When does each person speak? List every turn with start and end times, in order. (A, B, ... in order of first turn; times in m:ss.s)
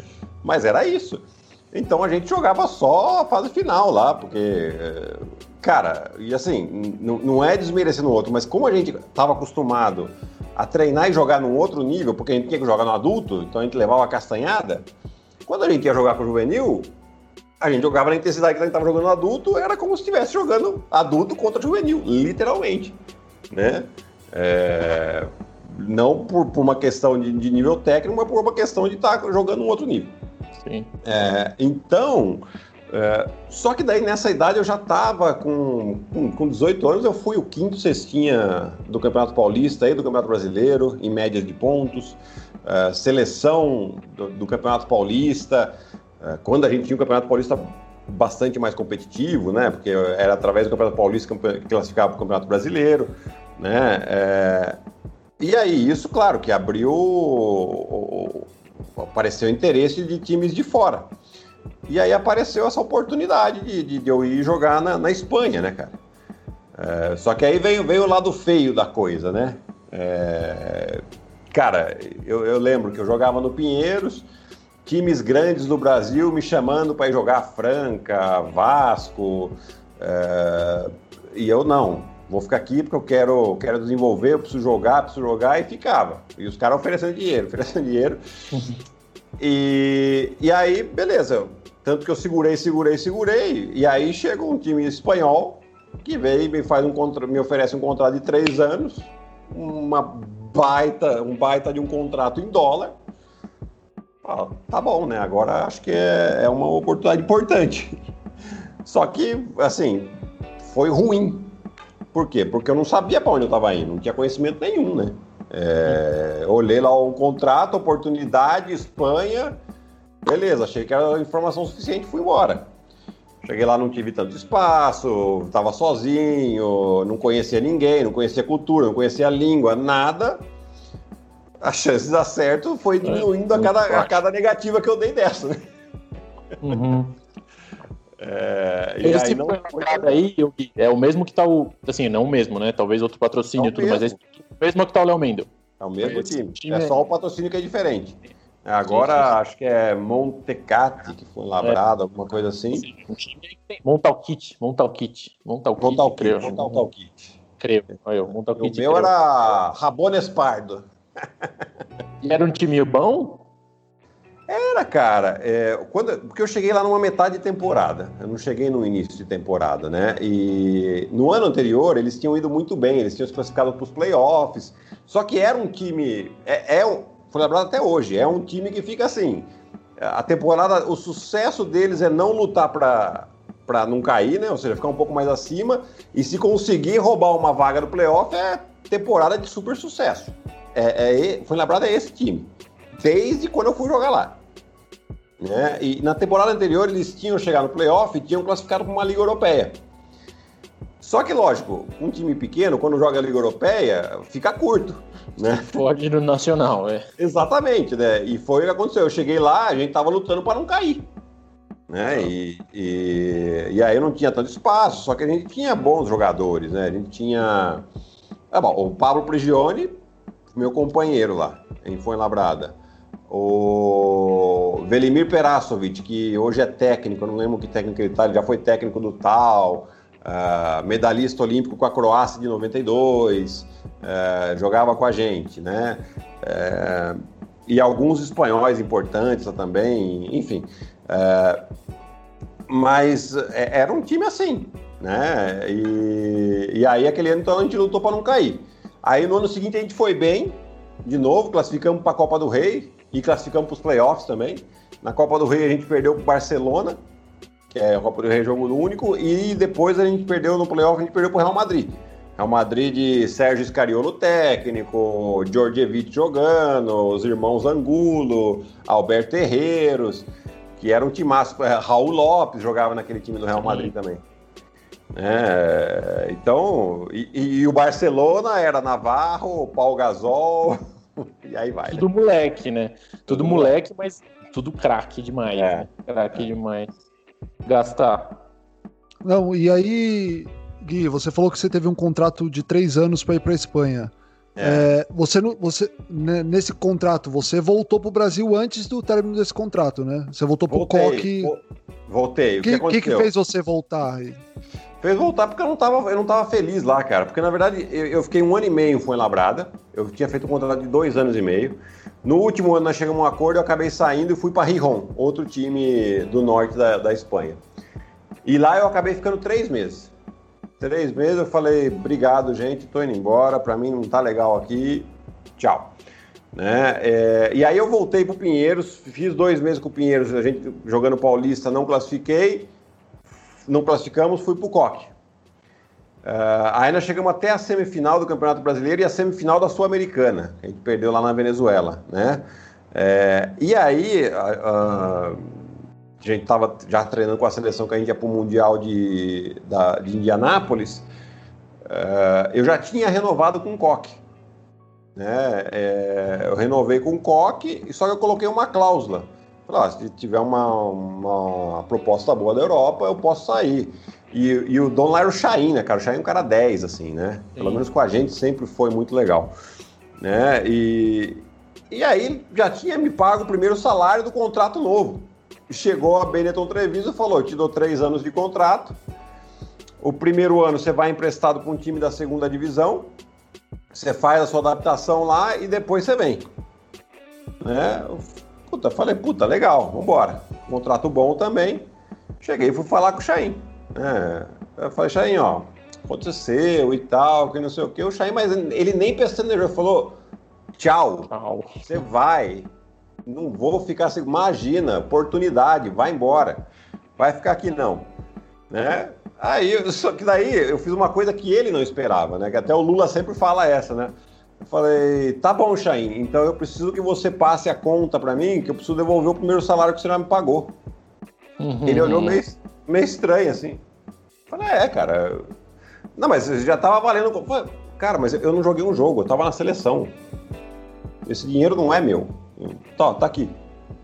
0:00.4-0:14.9 A
0:15.4-0:16.9 A
0:17.6-0:23.0 A
0:23.5-0:30.1 A
0:30.6-0:30.9 B
0:31.0-0:54.8 A
0:55.4-1:01.1 A
1:01.8-1:06.0 A
1:06.7-1:14.3 A
1:14.8-1:28.2 A
1:28.5-1:28.8 B
1:29.4-1:43.0 A
1:44.2-1:48.0 A
1:48.8-1:51.5 A
1:52.1-1:59.6 A
2:00.2-2:02.7 A
2:03.4-2:10.4 A
2:11.6-2:15.6 A
2:13.0-2:14.2 B
2:16.6-2:17.2 B
2:18.2-2:20.2 A
2:19.0-2:25.5 B
2:23.6-2:24.2 A
2:25.8-2:32.9 A
2:26.0-2:27.0 B
2:28.9-2:29.4 B
2:32.7-2:36.8 B
2:35.8-2:37.4 A
2:37.6-2:39.1 B
2:38.6-2:40.9 A
2:42.2-2:43.4 B
2:44.5-3:14.4 A
3:15.4-3:19.8 A
3:21.0-3:25.8 A
3:25.7-3:27.0 B
3:27.2-3:31.1 A
3:31.9-3:37.9 A
3:38.5-3:39.9 A
3:40.5-3:42.8 A
3:43.3-4:01.6 A
4:02.7-4:17.0 A
4:17.7-4:34.2 A
4:33.6-4:33.9 B
4:35.1-4:42.0 A
4:41.9-4:46.9 B
4:43.3-4:43.7 A
4:45.5-4:46.5 A
4:47.6-4:48.4 B
4:49.2-5:01.5 C
4:54.6-4:54.8 A
5:00.7-5:03.3 A
5:02.6-5:04.4 C
5:05.0-5:17.6 A
5:18.4-5:20.1 A
5:20.8-5:25.9 A
5:26.5-5:32.7 A
5:33.6-5:35.1 A
5:36.2-5:45.5 A
5:46.2-5:51.1 A
5:51.8-5:54.2 A
5:55.2-6:09.5 A
6:07.6-6:07.8 B
6:10.2-6:19.0 A
6:20.0-6:23.1 A
6:23.9-6:26.5 A
6:27.6-6:31.9 A
6:32.4-6:40.2 A
6:40.8-6:41.3 A
6:41.3-6:42.0 B
6:41.8-6:42.7 A
6:43.2-6:46.6 A
6:47.2-6:48.1 A
6:48.7-7:00.7 A
7:01.6-7:02.4 B
7:01.8-7:03.8 A
7:04.5-7:05.4 A
7:06.1-7:10.1 A
7:11.2-7:13.6 A